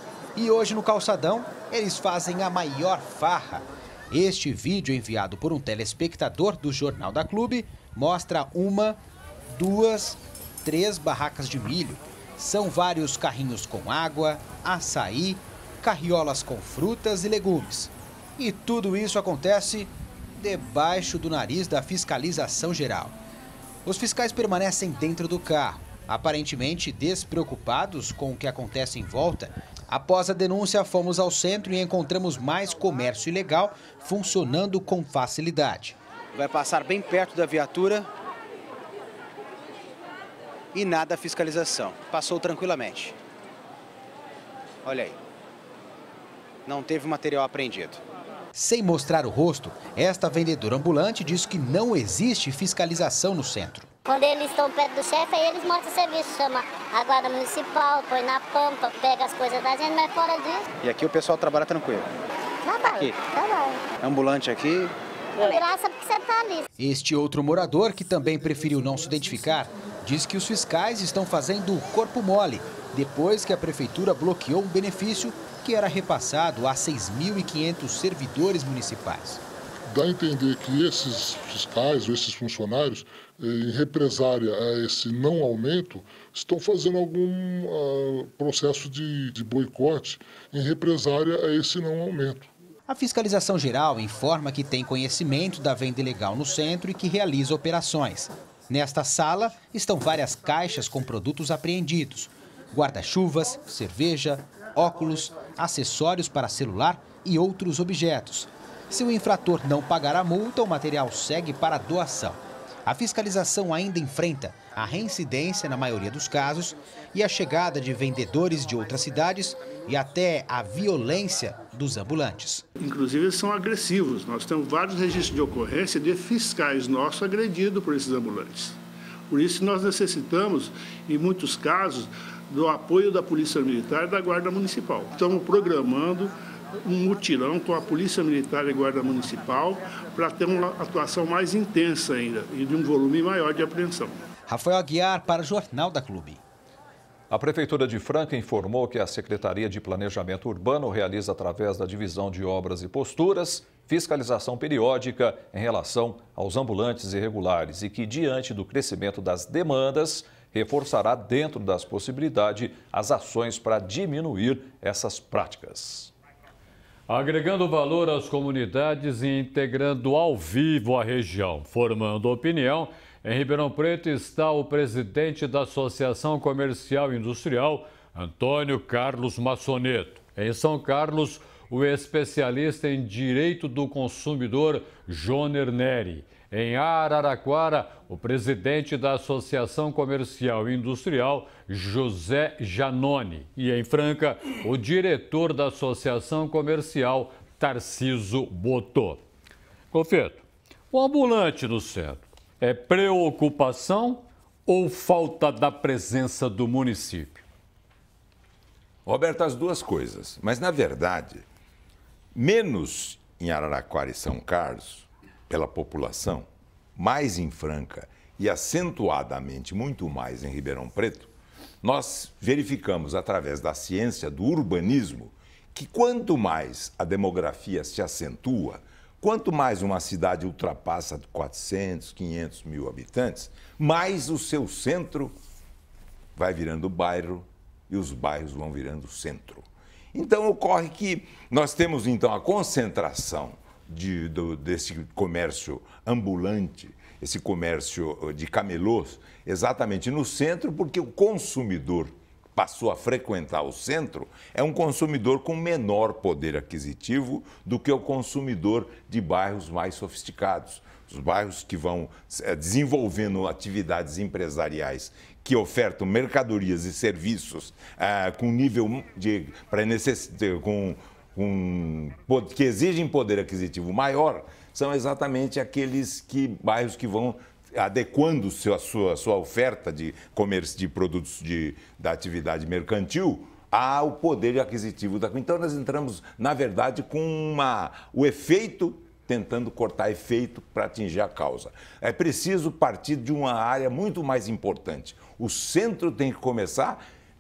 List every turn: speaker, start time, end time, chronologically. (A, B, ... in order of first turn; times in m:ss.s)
0:00.4-0:23.2 A
0:23.8-0:38.1 A
0:40.7-0:43.2 A
0:44.8-0:45.2 A
0:46.7-0:48.0 A
0:48.5-0:53.9 A
0:54.1-1:00.6 B
1:00.8-1:02.1 A
1:02.8-1:03.8 B
1:04.0-1:04.9 A
1:05.4-1:06.7 B
1:06.8-1:19.4 A
1:19.9-1:32.5 C
1:32.9-2:02.6 A
2:02.8-2:08.8 D
2:09.3-2:24.2 D
2:24.5-2:26.4 A
2:27.3-2:46.1 E
2:47.1-3:19.2 F
3:19.9-3:27.4 F
3:29.1-3:31.4 G
3:32.4-3:41.3 G
3:41.8-3:55.4 G
3:56.4-4:57.0 G